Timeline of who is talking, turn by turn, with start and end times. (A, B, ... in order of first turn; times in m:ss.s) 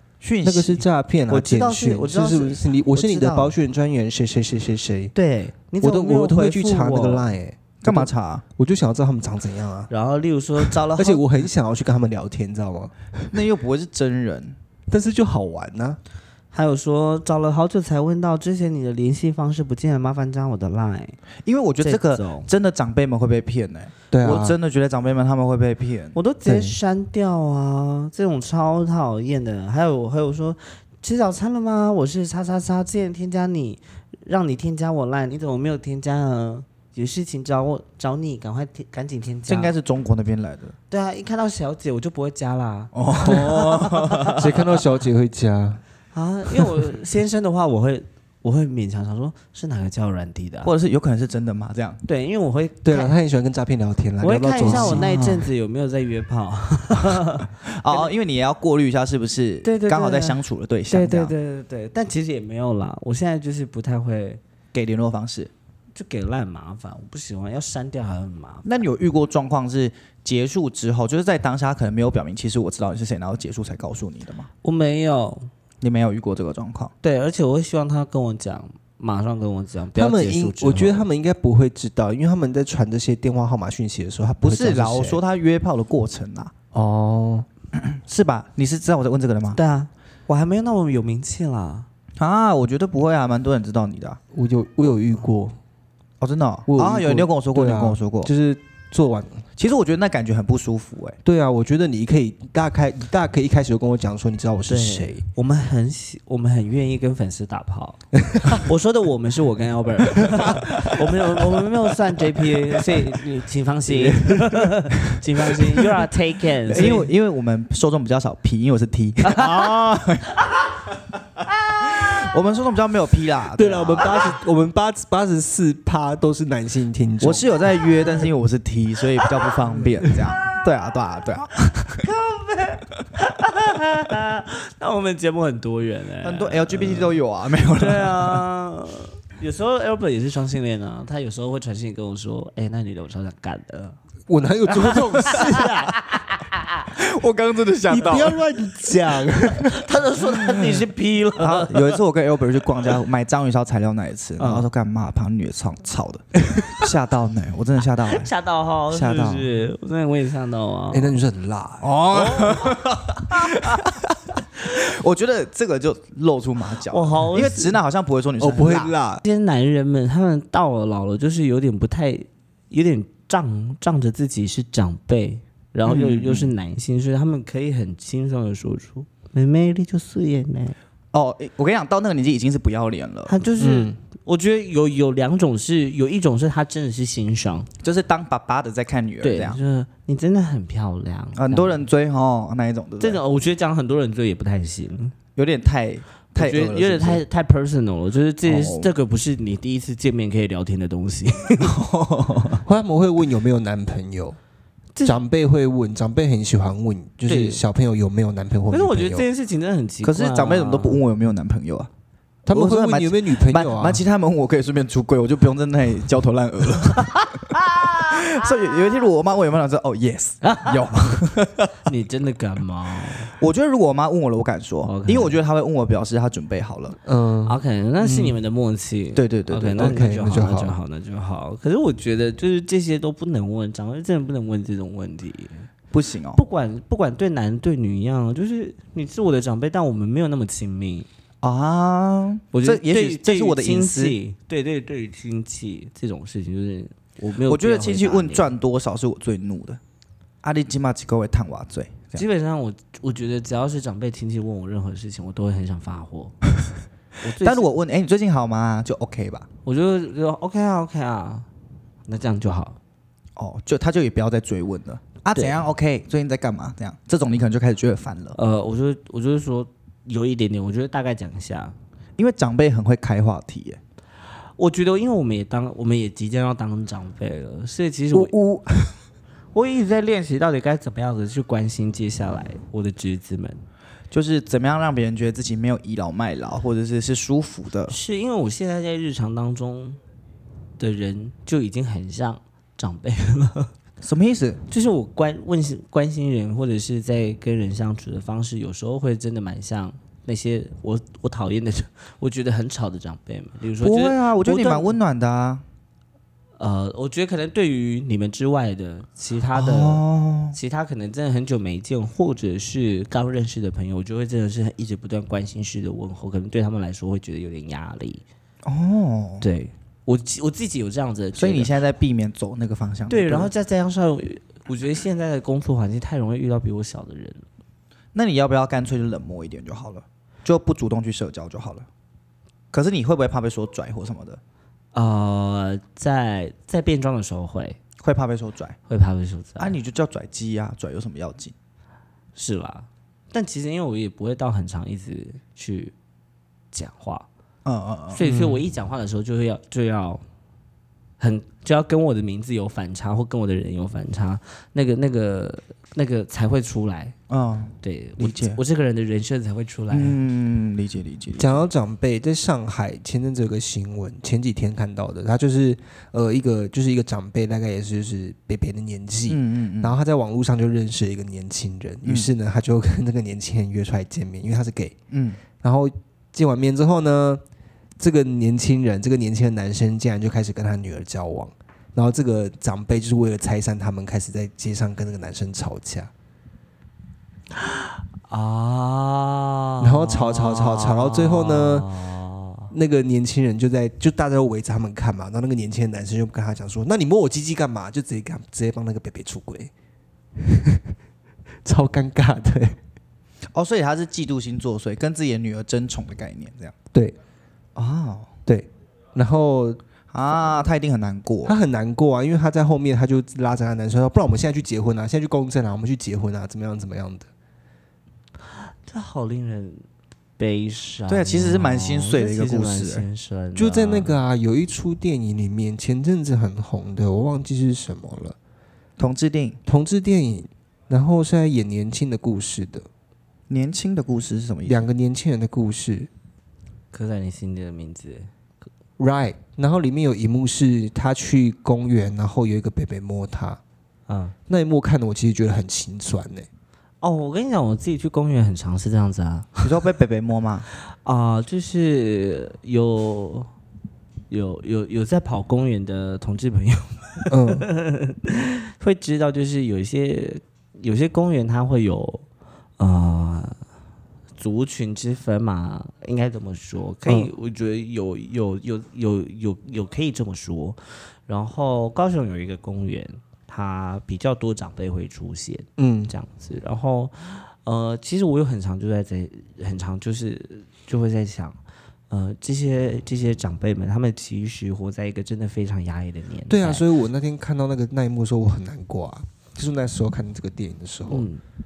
0:00.2-0:00.9 A
0:00.4-0:05.1 B
0:01.3-0:03.5 C
0:05.1-0:07.3 C
0:05.8-0:09.9 B
0:07.8-0:08.4 A
0:09.9-0:11.2 C
0:10.6-0:13.3 B
0:13.3-0:14.6 A
0:14.9-0:16.0 B
0:16.5-0:21.2 C
0:21.4-0:26.2 A
0:21.8-0:22.5 C
0:24.1-0:24.6 B
0:26.1-0:39.7 C
0:26.4-0:26.7 B
0:39.5-0:40.7 A
0:40.9-0:44.7 C
0:42.9-0:44.5 A
0:44.4-0:45.8 B
0:46.1-0:50.7 C
0:50.6-0:52.0 A
0:52.0-0:53.1 C
0:52.8-0:55.1 B
0:54.2-0:58.1 C
0:54.7-0:55.4 A
0:57.6-1:01.3 A
0:59.6-1:04.4 C
1:04.7-1:05.5 A
1:05.9-1:08.8 C
1:08.6-1:14.5 A
1:14.6-1:15.5 C
1:15.8-1:16.9 A
1:17.0-1:21.0 C
1:19.9-1:25.2 B
1:24.4-1:26.5 A
1:26.7-1:27.5 B
1:27.8-1:29.6 A
1:29.5-1:31.9 C
1:32.2-1:34.2 A
1:34.3-1:35.6 B
1:36.2-1:38.3 A
1:36.7-1:39.4 B
1:39.6-1:41.2 A
1:41.2-1:45.2 B
1:44.7-1:57.1 C
1:48.3-1:48.6 B
1:53.9-1:54.6 B
1:56.7-2:00.4 A
2:01.8-2:04.3 A
2:03.6-2:07.5 B
2:07.2-2:12.0 A
2:12.0-2:17.2 C
2:16.2-2:18.4 A
2:17.8-2:24.0 C
2:24.3-2:25.8 B
2:24.7-2:26.6 C
2:26.9-2:28.4 A
2:27.9-2:29.7 B
2:29.5-2:32.0 C
2:31.4-2:38.3 A
2:34.4-2:34.6 C
2:38.1-2:41.1 C
2:38.9-2:39.4 A
2:40.9-2:42.4 B
2:41.8-2:44.0 A
2:42.4-2:42.7 C
2:44.6-2:48.9 A
2:46.9-2:47.8 C
2:48.4-2:49.2 B
2:49.2-3:00.8 C
2:55.8-2:56.5 A
3:01.1-3:03.3 A
3:03.3-3:07.7 C
3:03.6-3:04.0 B
3:07.8-3:09.6 A
3:09.2-3:11.8 C
3:11.4-3:13.2 A
3:13.0-3:15.1 C
3:15.4-3:17.2 A
3:16.4-3:21.7 C
3:18.4-3:18.9 A
3:21.6-3:22.6 A
3:22.6-3:24.4 B
3:25.0-3:29.2 B
3:27.3-3:27.6 C
3:28.7-3:31.0 C
3:30.0-3:31.9 A
3:32.4-3:34.0 B
3:32.5-3:41.7 A
3:37.2-3:38.4 C
3:40.4-3:40.9 C
3:41.8-3:43.3 C
3:43.3-3:47.0 A
3:44.8-3:45.4 C
3:47.0-3:48.4 B
3:47.4-3:55.7 C
3:49.1-3:50.0 A
3:49.8-3:50.7 B
3:55.9-3:56.4 A
3:56.4-4:01.1 C
4:01.4-4:04.2 A
4:02.5-4:08.5 C
4:07.5-4:09.8 A
4:10.4-4:12.2 A
4:12.1-4:16.4 C
4:17.2-4:17.7 C
4:17.4-4:19.4 A
4:19.6-4:21.5 C
4:22.1-4:22.8 C
4:23.4-4:28.4 A
4:28.4-4:31.8 C
4:32.2-4:33.8 A
4:34.6-4:38.3 C
4:38.1-4:38.9 B
4:39.5-4:43.6 C
4:44.1-4:47.9 A
4:47.9-4:50.0 C
4:50.8-4:53.7 C
4:54.0-4:54.6 A
4:54.7-5:05.0 C
5:03.8-5:05.6 A
5:06.6-5:18.2 C
5:09.6-5:10.6 A
5:18.6-5:19.4 A
5:19.4-5:21.7 C
5:21.4-5:23.5 A
5:23.1-5:27.4 C
5:28.1-5:31.9 A
5:32.7-5:34.4 A
5:34.9-5:37.8 C
5:38.0-5:38.8 A
5:38.9-5:39.8 C
5:39.6-5:41.5 A
5:42.4-5:45.9 C
5:46.7-5:47.3 C
5:47.6-5:48.2 A
5:48.1-5:50.2 C
5:48.2-5:48.6 B
5:51.2-5:57.1 C
5:57.3-5:58.6 A
5:57.8-6:00.2 C
5:59.9-6:01.6 A
6:01.4-6:15.0 B
6:09.3-6:10.0 A
6:12.0-6:12.3 A
6:15.1-6:15.4 A
6:15.6-6:17.4 B
6:18.0-6:26.1 B
6:27.6-6:32.7 C
6:29.8-6:31.9 B
6:32.7-6:39.7 B
6:40.4-6:40.9 B
6:41.6-6:42.8 B
6:43.5-6:46.7 A
6:47.8-6:48.3 A
6:48.4-6:49.8 B
6:50.1-6:51.6 A
6:51.4-6:57.3 B
6:58.9-6:59.8 C
7:00.4-7:04.2 C
7:01.1-7:03.0 A
7:03.6-7:08.4 B
7:09.0-7:09.6 A
7:09.6-7:12.9 B
7:13.5-7:14.9 A
7:14.6-7:16.1 B
7:16.9-7:18.3 C
7:19.0-7:23.6 B
7:24.1-7:24.4 C
7:24.5-7:26.5 B
7:27.0-7:29.6 C
7:29.6-7:30.7 A
7:30.8-7:33.5 C
7:34.3-7:42.2 C
7:37.3-7:37.6 B
7:42.8-7:43.6 C
7:44.4-8:01.6 C
7:55.8-7:56.1 B
8:02.1-8:06.8 C
8:06.5-8:11.3 B
8:11.1-8:11.4 C